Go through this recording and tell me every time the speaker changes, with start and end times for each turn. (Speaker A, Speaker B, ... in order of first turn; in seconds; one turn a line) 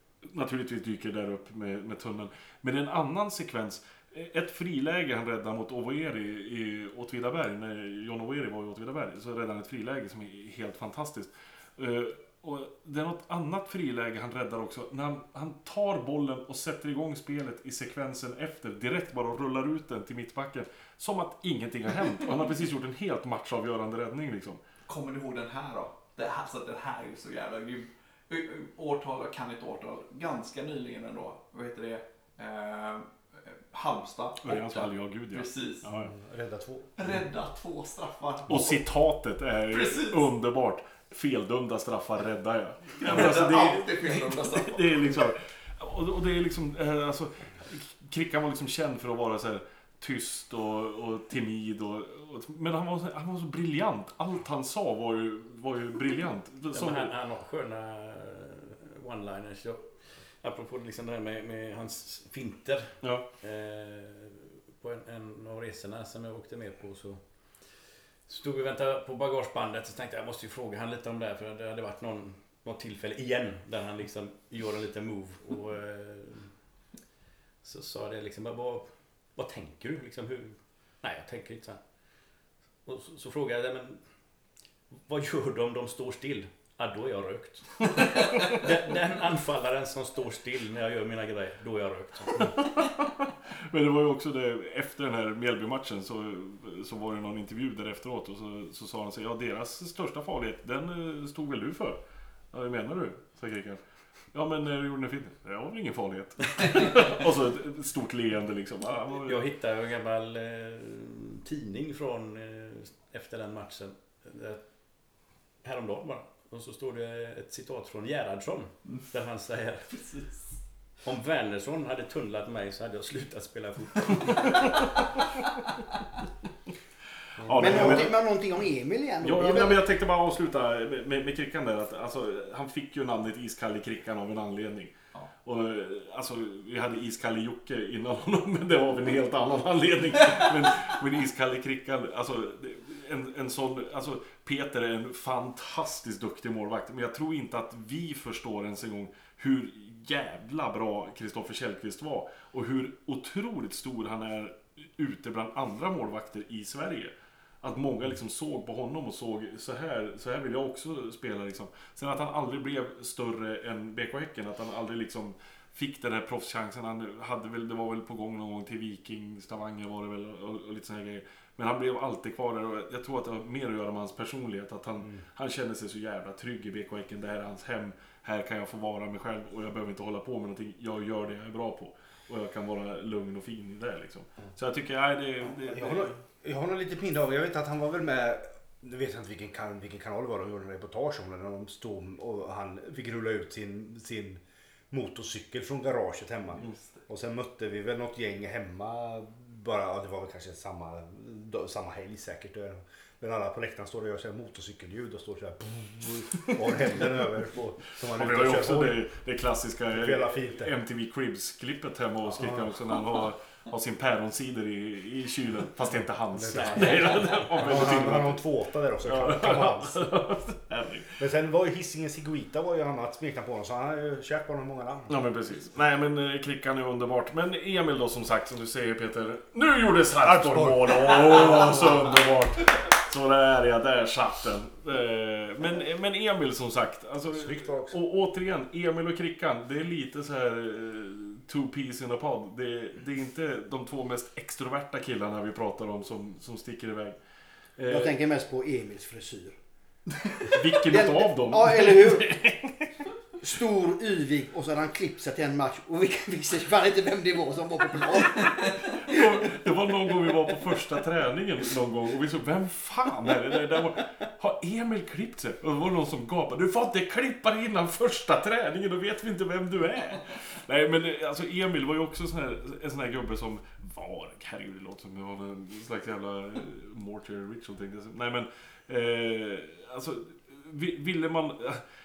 Speaker A: 0.2-24.6
Speaker B: 24.9-35.9
Speaker A: 34.4-36.1
Speaker C: 36.0-37.1
Speaker B: 37.0-38.8
Speaker A: 38.5-57.1
Speaker B: 39.7-40.2
Speaker B: 43.0-45.3
Speaker D: 56.7-76.5
Speaker A: 63.0-63.3
Speaker D: 77.6-81.8
Speaker D: 82.8-84.0
Speaker D: 85.0-92.6
Speaker A: 92.6-102.0
Speaker A: 102.5-109.4
Speaker B: 106.7-107.2
Speaker D: 109.2-114.7
Speaker D: 115.6-120.0
Speaker B: 119.9-120.5
Speaker D: 121.0-125.0
Speaker C: 127.4-128.1
Speaker A: 127.4-128.2
Speaker E: 127.5-129.8
Speaker A: 129.2-157.1
Speaker A: 157.6-186.2
Speaker C: 185.6-209.0
Speaker B: 196.6-197.0
Speaker A: 208.1-218.4
Speaker C: 209.9-210.7
Speaker C: 212.3-212.7
Speaker C: 216.3-217.0
Speaker D: 216.5-217.1
Speaker C: 217.6-220.1
Speaker A: 219.0-221.2
Speaker C: 221.2-225.2
Speaker A: 225.1-247.2
Speaker C: 230.2-231.9
Speaker C: 237.3-238.0
Speaker A: 247.8-248.2
Speaker E: 247.9-249.6
Speaker A: 250.5-252.9
Speaker E: 250.9-252.4
Speaker E: 253.4-259.5
Speaker A: 258.9-281.8